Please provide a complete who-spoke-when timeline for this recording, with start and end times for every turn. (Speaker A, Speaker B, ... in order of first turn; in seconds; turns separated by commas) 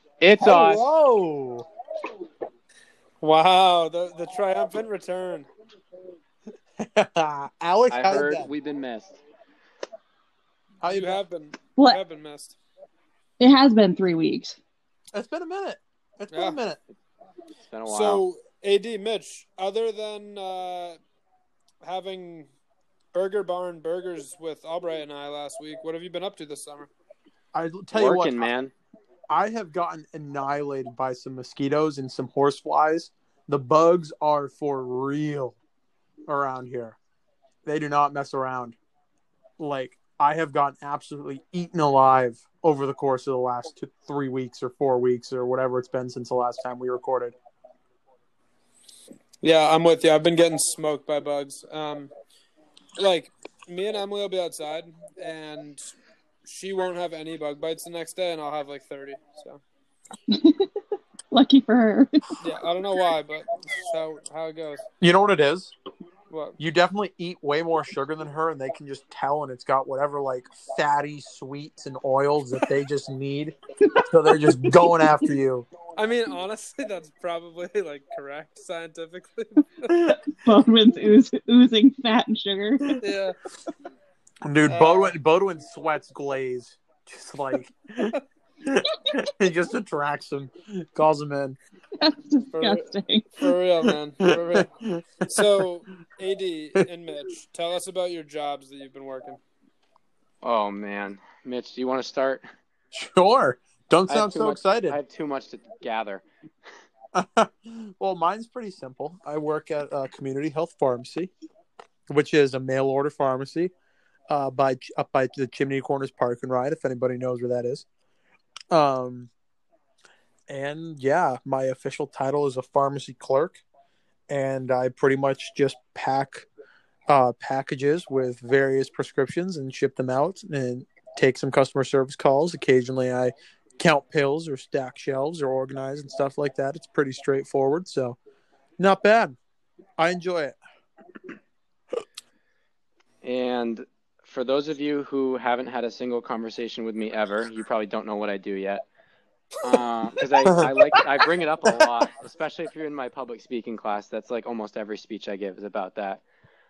Speaker A: 0.2-0.9, Speaker B: 0.4-1.7, Speaker C: 3.2-5.5, Speaker B: 6.8-8.5, Speaker A: 7.9-9.2, Speaker B: 10.8-11.2, Speaker C: 10.8-12.6, Speaker D: 13.4-14.6, Speaker B: 15.1-16.8, Speaker C: 16.3-16.6, Speaker A: 17.7-18.2, Speaker C: 17.9-21.0, Speaker C: 21.8-22.5, Speaker C: 23.1-26.9, Speaker B: 27.5-28.5, Speaker A: 27.9-28.7, Speaker B: 29.3-35.6, Speaker B: 36.3-37.0, Speaker B: 37.6-38.8, Speaker B: 39.6-47.4, Speaker C: 49.4-52.1, Speaker C: 53.0-55.9, Speaker C: 56.4-59.6, Speaker D: 60.3-60.7, Speaker D: 61.3-62.4, Speaker C: 62.4-64.8, Speaker B: 65.0-65.7, Speaker C: 66.3-66.6, Speaker B: 66.6-75.7, Speaker D: 74.5-74.8, Speaker C: 76.0-80.1, Speaker D: 80.3-83.0, Speaker C: 83.0-83.3, Speaker B: 84.4-91.6, Speaker C: 84.7-85.1, Speaker D: 92.0-93.3, Speaker C: 92.5-94.7, Speaker B: 94.2-95.6, Speaker C: 95.2-99.4, Speaker A: 100.4-102.5, Speaker B: 102.9-105.0, Speaker A: 104.1-106.2, Speaker B: 107.1-111.3, Speaker B: 112.1-113.7, Speaker B: 114.3-117.8, Speaker B: 118.7-119.3, Speaker B: 120.5-123.6, Speaker B: 124.3-126.5, Speaker B: 127.1-138.2, Speaker B: 138.8-139.4, Speaker B: 140.0-140.6, Speaker A: 143.2-148.8, Speaker A: 149.6-156.2, Speaker B: 150.5-150.7